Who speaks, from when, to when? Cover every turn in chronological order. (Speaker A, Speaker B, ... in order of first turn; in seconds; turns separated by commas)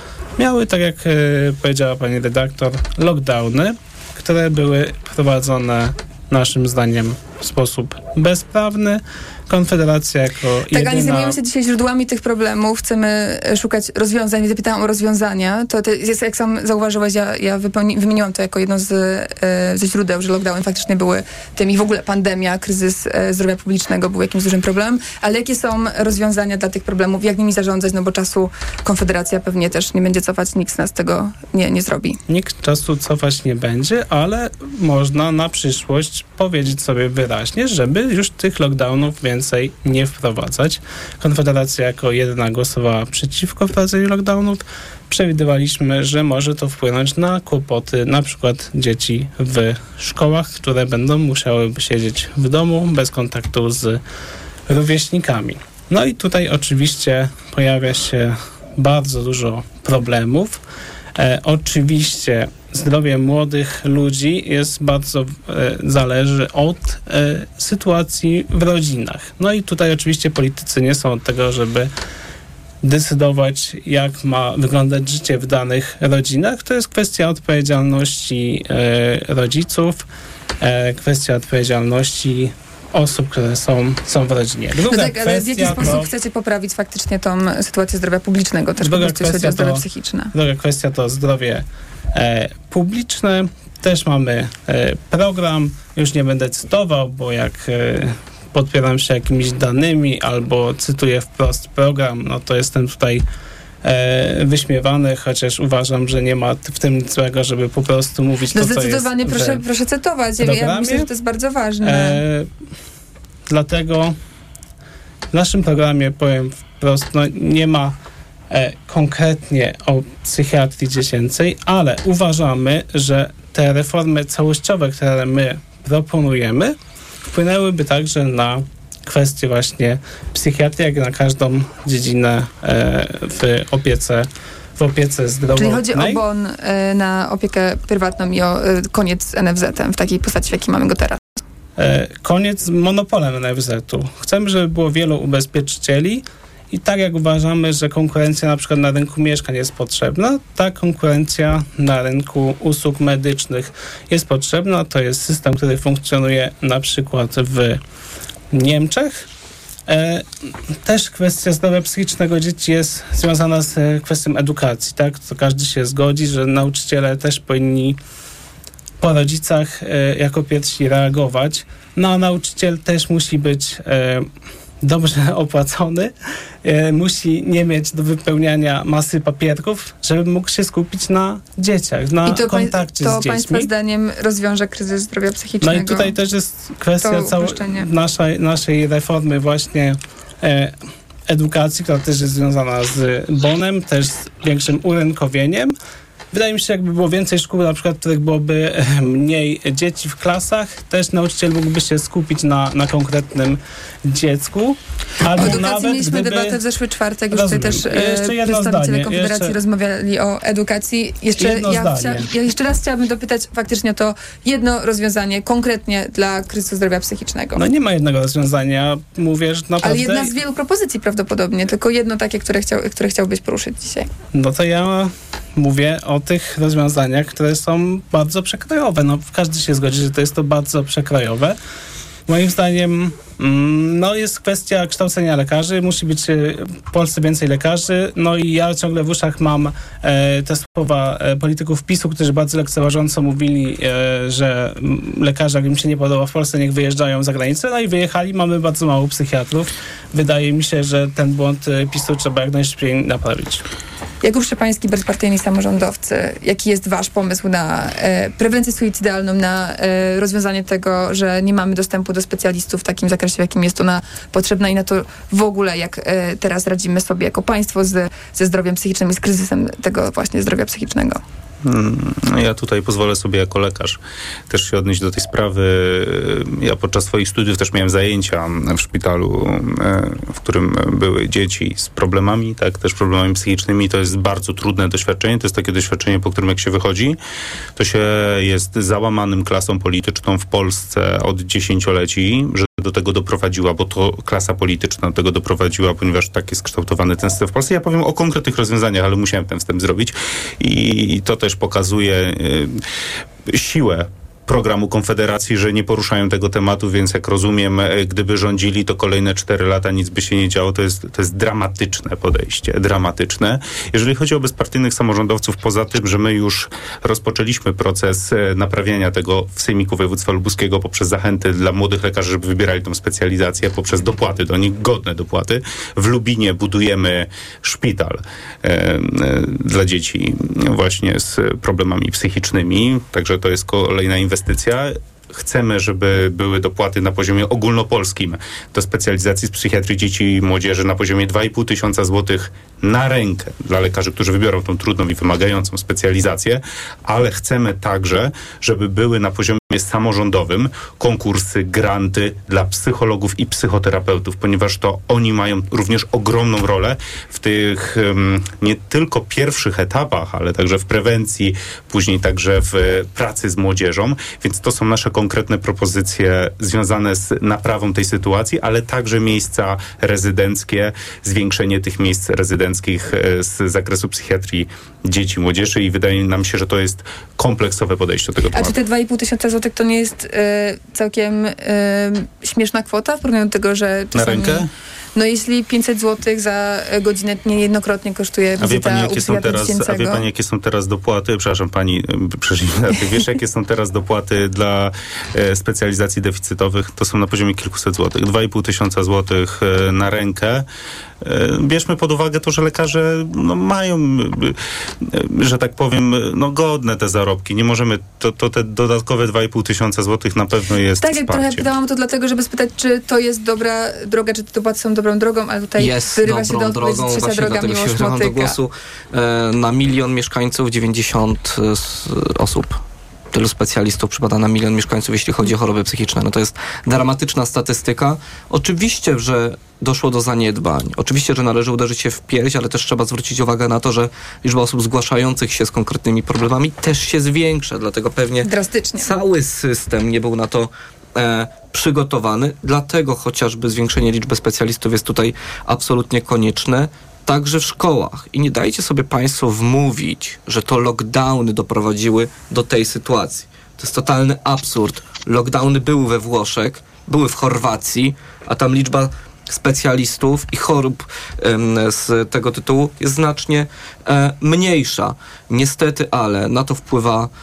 Speaker A: 0.4-11.4, Speaker B: 10.7-32.2, Speaker A: 32.3-54.0, Speaker A: 54.7-60.6, Speaker A: 61.2-71.9, Speaker A: 72.8-80.0, Speaker A: 80.6-86.1, Speaker B: 84.9-90.3, Speaker A: 88.8-103.2, Speaker A: 103.8-109.6, Speaker B: 108.5-112.2, Speaker A: 110.4-111.1, Speaker A: 111.8-112.5, Speaker A: 113.5-114.2, Speaker A: 115.3-117.9, Speaker A: 118.5-126.8, Speaker A: 127.3-136.2, Speaker B: 135.6-141.4, Speaker A: 141.8-157.8, Speaker A: 158.5-159.2, Speaker A: 159.9-168.0, Speaker A: 169.0-174.3, Speaker A: 174.8-176.1, Speaker A: 176.6-183.7, Speaker B: 182.2-186.1, Speaker A: 185.6-190.7, Speaker B: 187.0-187.9, Speaker A: 191.3-195.7, Speaker A: 196.3-206.6, Speaker B: 205.3-217.6, Speaker A: 207.3-209.6, Speaker A: 211.3-212.3, Speaker A: 217.6-220.3, Speaker B: 219.8-224.1, Speaker A: 224.3-231.6, Speaker A: 232.3-253.6, Speaker B: 254.2-271.2, Speaker C: 271.6-287.2, Speaker C: 287.8-302.8, Speaker C: 303.5-378.8, Speaker B: 378.5-390.2, Speaker C: 384.1-384.7, Speaker C: 388.6-400.6, Speaker C: 401.2-411.6, Speaker B: 411.0-418.6, Speaker D: 415.8-422.8, Speaker D: 423.3-467.3, Speaker B: 438.4-439.1